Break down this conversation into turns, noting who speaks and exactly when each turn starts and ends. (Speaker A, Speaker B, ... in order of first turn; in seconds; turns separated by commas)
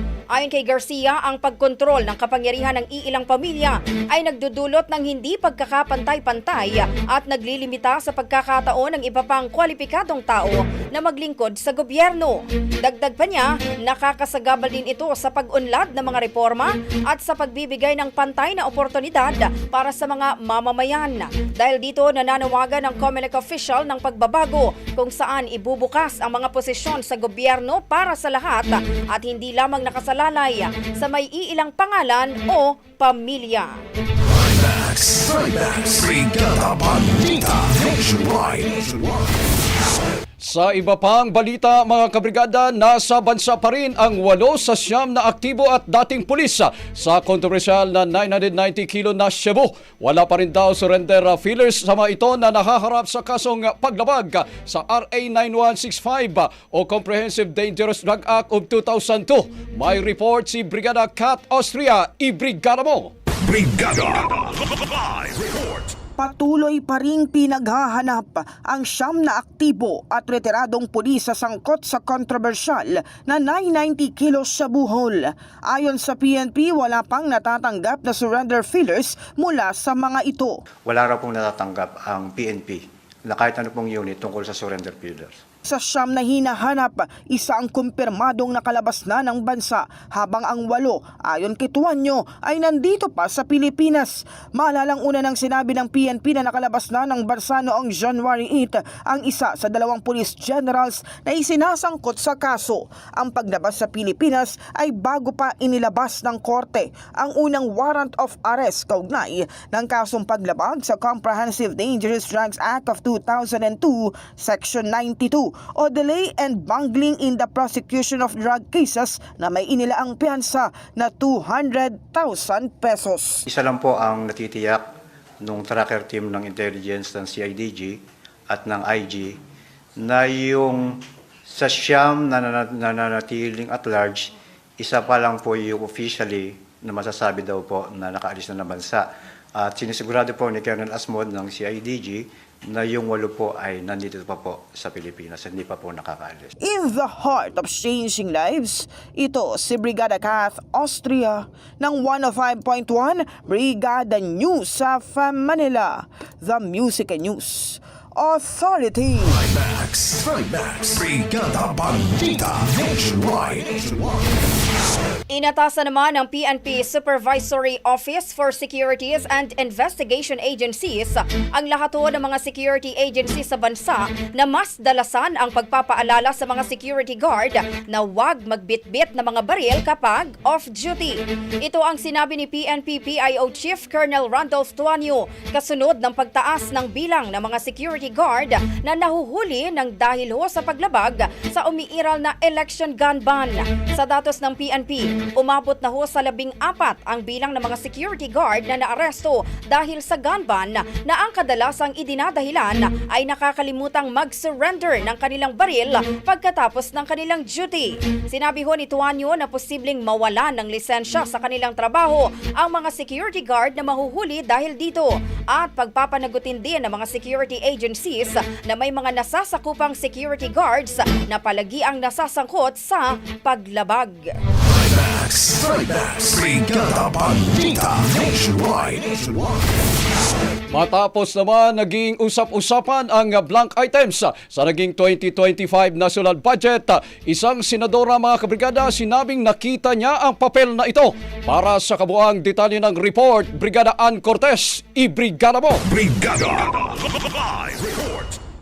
Speaker A: 0.3-33.8, Speaker B: 34.4-39.1, Speaker C: 40.4-63.1, Speaker B: 63.5-64.3, Speaker D: 66.2-80.5, Speaker E: 80.9-85.3, Speaker D: 85.7-123.4, Speaker E: 123.5-124.8, Speaker E: 125.5-127.9, Speaker E: 128.5-129.3, Speaker E: 130.0-130.8, Speaker E: 131.5-134.2, Speaker E: 134.8-139.0, Speaker E: 139.6-142.2, Speaker E: 142.7-146.5, Speaker D: 146.6-159.4, Speaker B: 159.4-164.0, Speaker A: 165.3-224.3, Speaker B: 224.8-229.4, Speaker C: 230.7-245.8, Speaker B: 245.9-248.2